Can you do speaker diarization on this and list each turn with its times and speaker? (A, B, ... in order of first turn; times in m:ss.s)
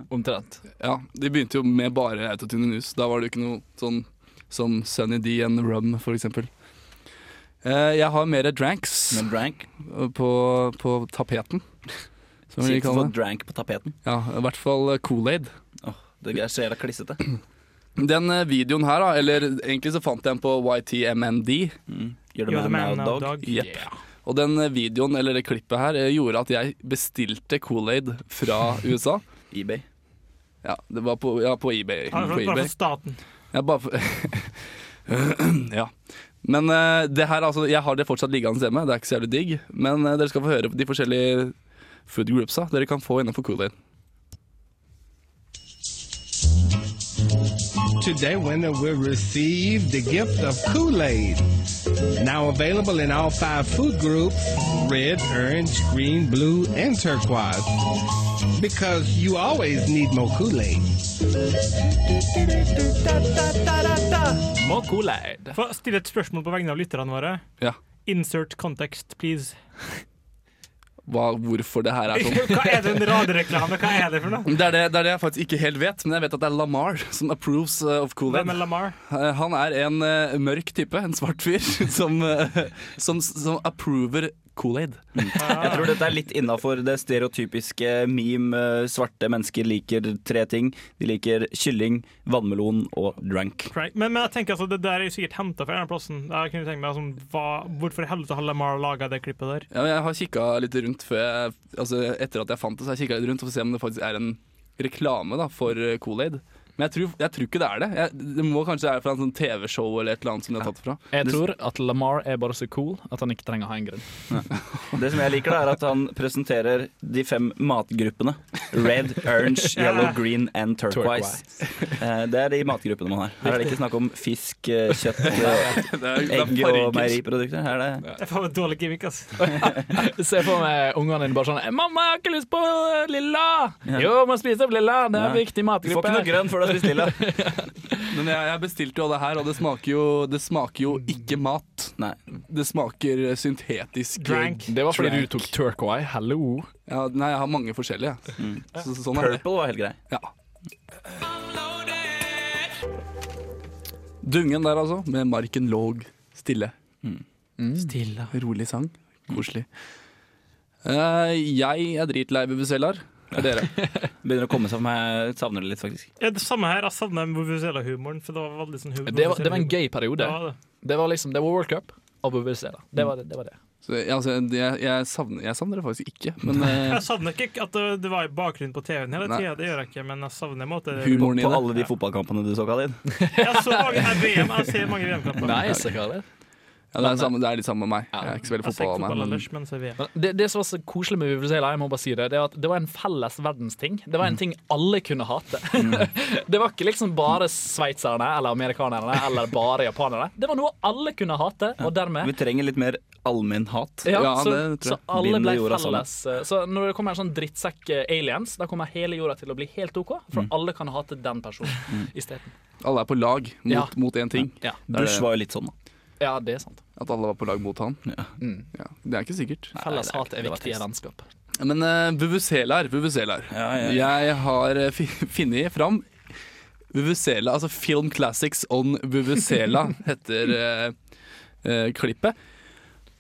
0:00.1-0:00.6 A
0:00.8-0:06.5 B
0:07.6-0:09.3 B
0:09.1-0:09.7 C
0:09.8-0:11.6 B
0:12.5-0:13.1 B
0:12.6-0:14.0 C
0:14.0-0:15.5 B
0:15.8-0:17.2 C
0:18.0-0:21.8 B
0:21.9-0:23.3 C
0:22.5-0:23.5 D
0:23.4-0:23.7 B
0:23.6-0:24.0 A
0:24.2-0:29.2 B
0:29.5-0:29.8 C
0:30.6-0:32.7 B
0:32.1-0:33.2 D
0:33.5-0:35.9 B
0:36.4-0:41.6 B
0:42.1-0:43.7 B
0:48.0-0:51.4 E
0:52.2-0:57.8 E
0:58.6-1:00.9 E
1:04.6-1:05.6 A
1:05.5-1:07.4 D
1:08.0-1:09.6 D
1:11.1-1:12.7 B
1:12.2-1:14.5 D
1:14.4-1:25.6 B
1:18.3-1:19.0 D
1:25.2-1:33.7 C
1:25.4-1:25.9 D
1:33.7-1:39.7 D
1:39.7-1:51.0 B
1:51.1-1:54.1 A
1:54.3-2:08.0 C
1:59.8-2:00.1 D
2:00.9-2:01.9 A
2:05.3-2:05.8 A
2:05.4-2:07.2 B
2:08.2-2:09.5 D
2:09.5-2:18.1 A
2:15.1-2:17.2 C
2:18.1-2:25.4 B
2:24.2-2:24.7 D
2:24.7-2:26.7 A
2:26.9-2:29.4 B
2:28.4-2:30.0 C
2:34.2-2:36.7 B
2:37.6-2:38.0 A
2:38.3-2:39.7 B
2:40.8-2:43.8 B
2:44.2-2:46.1 C
2:46.2-2:50.6 D
2:49.1-2:53.6 A
2:53.8-2:57.0 B
2:56.9-3:01.2 D
3:01.0-3:01.6 B
3:01.1-3:03.0 C
3:03.2-3:04.2 A
3:03.4-3:05.6 D
3:05.4-3:06.2 A
3:06.9-3:09.4 B
3:07.0-3:07.5 A
3:08.1-3:08.4 A
3:08.6-3:10.0 D
3:10.0-3:22.3 A
3:15.8-3:16.0 C
3:22.2-3:24.1 C
3:24.0-3:32.5 A
3:24.1-3:25.0 B
3:25.1-3:26.1 C
3:32.8-3:35.3 B
3:33.7-3:34.0 A
3:34.9-3:35.7 C
3:36.2-3:36.8 A
3:37.0-3:38.0 B
3:38.4-3:38.7 A
3:38.8-3:39.8 B
3:39.8-3:40.8 C
3:39.8-3:41.3 A
3:41.6-3:46.1 B
3:43.5-3:44.1 C
3:46.9-3:51.0 B
3:51.6-3:52.4 B